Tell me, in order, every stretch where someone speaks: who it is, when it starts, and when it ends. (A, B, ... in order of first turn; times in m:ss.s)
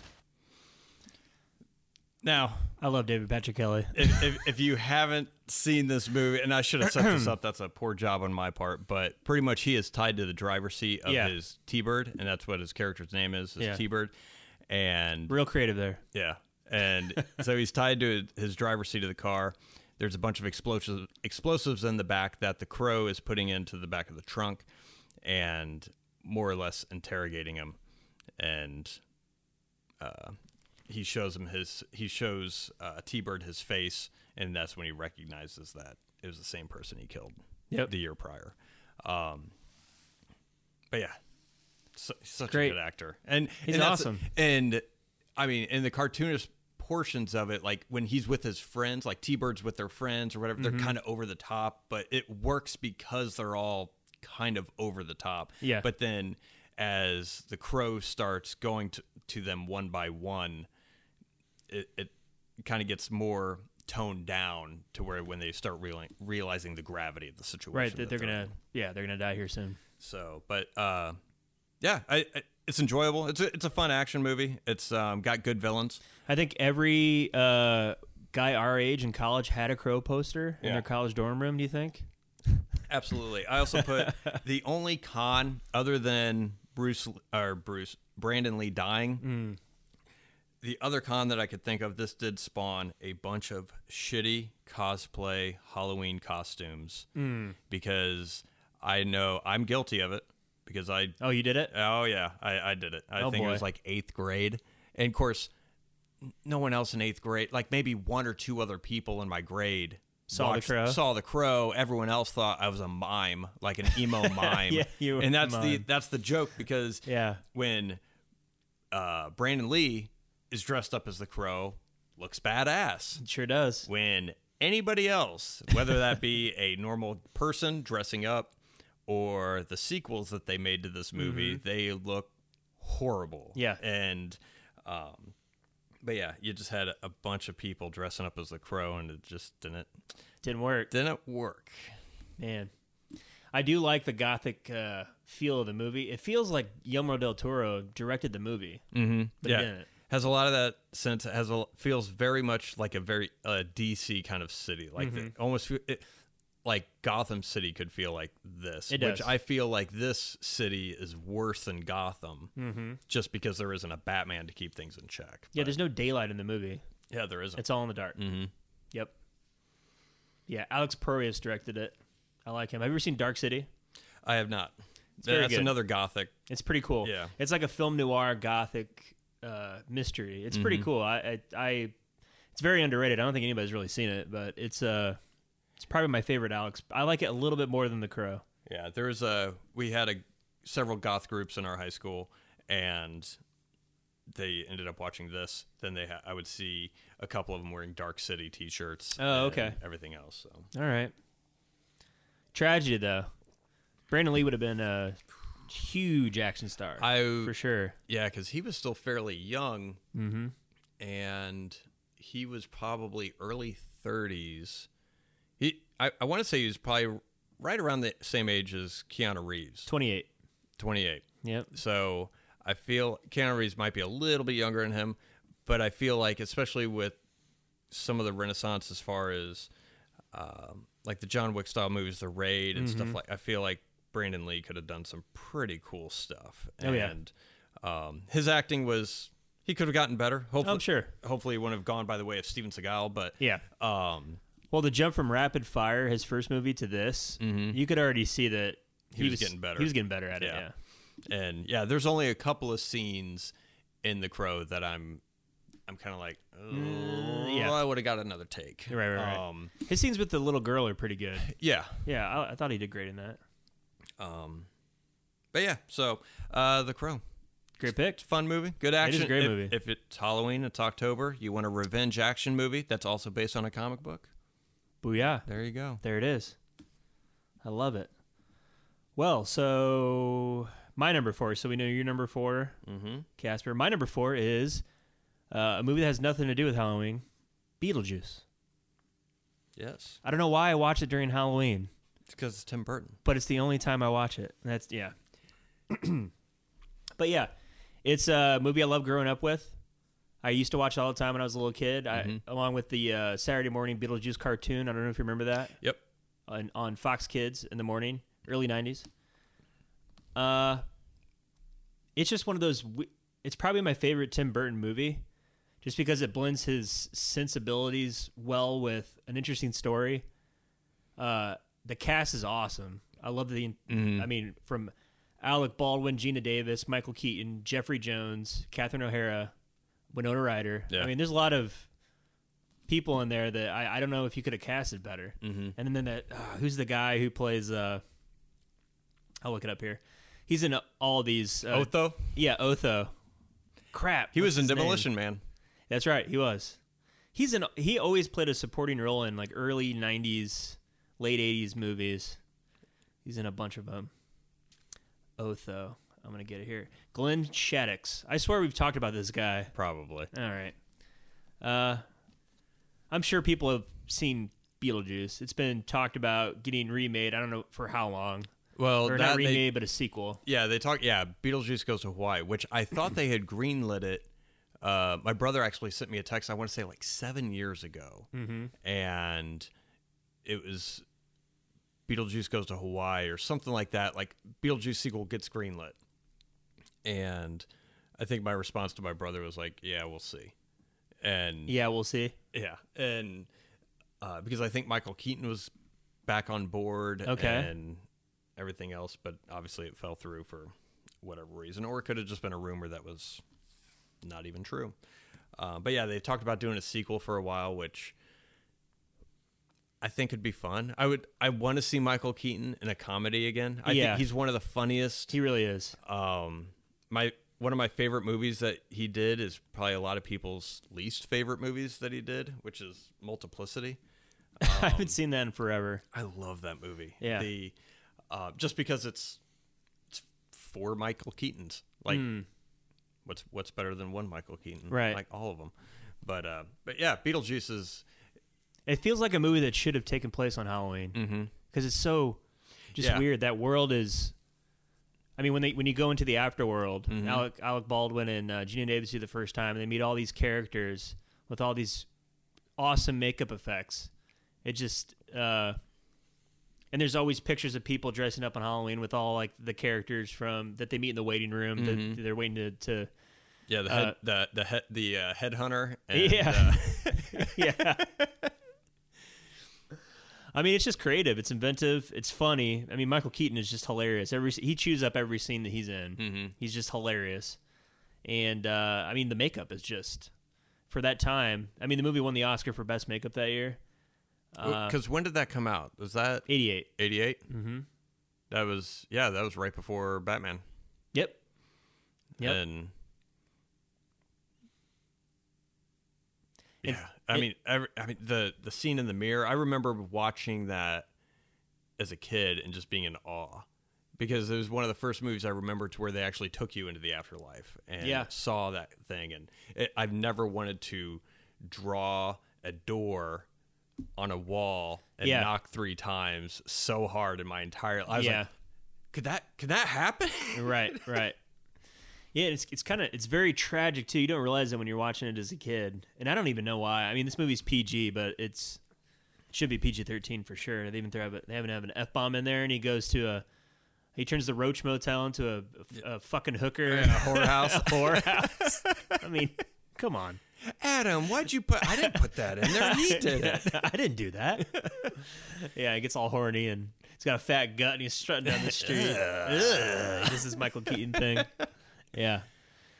0:02.2-0:02.8 A
0:02.8-0:04.3 B
0:03.9-0:14.1 A
0:06.8-0:07.3 B
0:11.0-0:11.3 B
0:14.7-0:15.4 A
0:15.3-0:16.0 B
0:16.1-0:24.7 A
0:25.2-0:27.8 A
0:28.4-0:29.0 A
0:30.0-0:39.5 A
0:40.9-0:41.2 A
0:41.9-1:00.7 A
0:42.5-0:42.8 B
0:43.6-0:44.3 B
0:50.6-0:50.9 B
0:55.6-0:55.9 B
1:01.7-1:08.5 A
1:07.7-1:09.8 B
1:10.0-1:11.2 A
1:11.8-1:16.0 A
1:16.2-1:22.1 B
1:22.9-1:29.2 A
1:23.7-1:24.4 B
1:29.2-1:29.6 B
1:30.6-1:37.1 A
1:37.2-1:37.6 B
1:37.7-1:45.5 A
1:41.2-1:41.7 B
1:43.2-1:43.6 B
1:46.4-1:58.0 A
1:50.3-1:51.0 B
1:53.9-1:55.8 B
1:57.0-1:57.4 B
1:58.9-2:03.2 A
2:03.2-2:03.9 B
2:03.8-2:08.5 A
2:09.1-2:15.3 A
2:11.2-2:11.6 B
2:13.5-2:13.8 B
2:16.0-2:19.9 A
2:20.4-2:20.9 B
2:20.9-2:21.9 A
2:22.4-2:22.7 B
2:23.5-2:28.8 B
2:28.9-2:36.1 A
2:29.4-2:29.9 B
2:35.0-2:35.3 B
2:36.6-2:42.5 A
2:38.9-2:39.3 B
2:42.6-2:43.0 B
2:43.1-2:45.8 A
2:45.5-2:46.8 B
2:47.1-2:48.5 A
2:47.6-2:48.2 B
2:50.5-2:53.7 B
2:54.2-2:56.4 A
2:55.2-2:55.8 B
2:56.5-3:01.9 B
2:57.0-2:57.3 A
3:00.5-3:00.9 A
3:02.5-3:05.2 B
3:05.8-3:08.4 B
3:08.6-3:13.4 A
3:14.3-3:20.7 A
3:19.2-3:19.8 B
3:20.7-3:21.1 B
3:22.5-3:23.3 B
3:24.1-3:28.0 B
3:27.0-3:27.5 A
3:28.1-3:30.0 A
3:30.1-3:30.5 B
3:31.0-3:34.9 A
3:35.6-3:39.9 A
3:39.9-3:40.3 B
3:40.8-3:47.2 A
3:41.4-3:41.7 B
3:47.9-3:49.7 A
3:50.3-4:04.4 A
3:52.8-3:53.2 B
3:56.8-3:57.1 B
4:00.6-4:01.1 B
4:03.4-4:03.6 B
4:04.7-4:10.7 B
4:07.4-4:07.8 A
4:09.1-4:10.6 A
4:11.2-4:15.2 A
4:15.9-4:19.7 A
4:16.7-4:17.8 B
4:18.9-4:21.5 B
4:21.4-4:22.0 A
4:22.0-4:23.4 B
4:24.2-4:24.7 A
4:25.5-4:27.2 A
4:27.8-4:28.2 B
4:28.2-4:34.3 A
4:29.0-4:29.8 B
4:35.0-4:35.4 B
4:35.4-4:36.0 A
4:36.0-4:36.6 B
4:37.6-4:38.1 B
4:39.2-4:42.8 B
4:42.8-4:43.2 A
4:43.4-4:44.8 B
4:45.5-4:47.2 B
4:47.8-4:48.4 B
4:49.8-4:50.2 A
4:50.2-4:51.9 B
4:52.3-4:53.2 A
4:53.2-4:55.1 B
4:55.9-4:56.3 B
4:57.2-4:57.5 B
4:58.0-4:59.8 B
5:00.4-5:05.8 B
5:02.1-5:02.4 A
5:06.5-5:09.1 B
5:10.3-5:10.8 B
5:12.2-5:15.2 B
5:15.8-5:20.2 B
5:21.2-5:29.5 B
5:23.9-5:24.3 A
5:30.1-5:31.9 B
5:32.9-5:38.0 B
5:35.4-5:35.8 A
5:39.4-5:43.1 B
5:41.7-5:42.3 A
5:43.9-5:45.1 B
5:44.3-5:45.4 A
5:45.9-5:46.8 B
5:47.3-5:52.4 B
5:53.2-5:54.1 B
5:55.4-5:59.7 B
5:59.7-6:00.3 A
6:00.3-6:00.8 B
6:01.6-6:02.0 B
6:03.1-6:08.5 B
6:08.8-6:09.7 A
6:09.0-6:10.4 B
6:10.4-6:14.3 A
6:14.8-6:18.3 A
6:18.3-6:18.7 B
6:18.8-6:19.7 A
6:20.4-6:21.0 A
6:22.1-6:26.0 A
6:27.0-6:30.5 A
6:31.2-6:31.7 A
6:31.7-6:32.3 B
6:32.5-6:33.5 A
6:34.2-6:35.7 A
6:36.2-6:38.0 A
6:37.2-6:37.7 B
6:38.6-6:43.4 A
6:44.2-6:45.0 A
6:45.6-6:48.2 A
6:50.0-6:55.4 A
6:53.8-6:54.3 B
6:55.3-6:56.0 B
6:56.0-7:04.0 A
7:04.6-7:05.2 A
7:04.6-7:06.0 B
7:06.1-7:07.8 A
7:07.2-7:07.5 B
7:08.3-7:09.4 A
7:10.1-7:12.4 A
7:12.1-7:12.5 B
7:13.2-7:18.0 A
7:14.9-7:15.2 B
7:18.9-7:22.4 B
7:21.1-7:21.5 A
7:22.9-7:23.2 A
7:22.9-7:24.3 B
7:25.4-7:32.1 B
7:27.1-7:27.5 A
7:32.8-7:34.1 B
7:34.6-7:35.8 B
7:36.9-7:43.1 B
7:41.8-7:42.2 A
7:43.7-7:48.4 A
7:43.9-7:44.2 B
7:46.1-7:48.1 B
7:50.5-7:57.6 B
7:56.2-7:56.5 A
7:58.2-8:00.3 B
8:00.9-8:03.8 B
8:04.5-8:05.0 B
8:04.6-8:07.4 A
8:06.5-8:06.9 B
8:07.5-8:07.8 B
8:08.5-8:10.6 A
8:11.1-8:11.4 B
8:12.4-8:12.9 A
8:16.8-8:21.1 A
8:16.8-8:17.5 B
8:22.0-8:23.6 A
8:24.2-8:33.5 A
8:28.0-8:28.3 B
8:34.2-8:38.5 A
8:35.2-8:35.5 B
8:38.1-8:38.5 B
8:39.1-8:41.2 A
8:40.5-8:41.4 B
8:42.3-8:48.8 B
8:49.5-8:53.4 B
8:54.1-9:00.4 B
8:56.8-8:59.2 A
9:00.6-9:03.9 A
9:01.9-9:11.5 B
9:04.6-9:05.2 A
9:08.4-9:10.5 A
9:11.1-9:11.6 A
9:12.1-9:12.5 B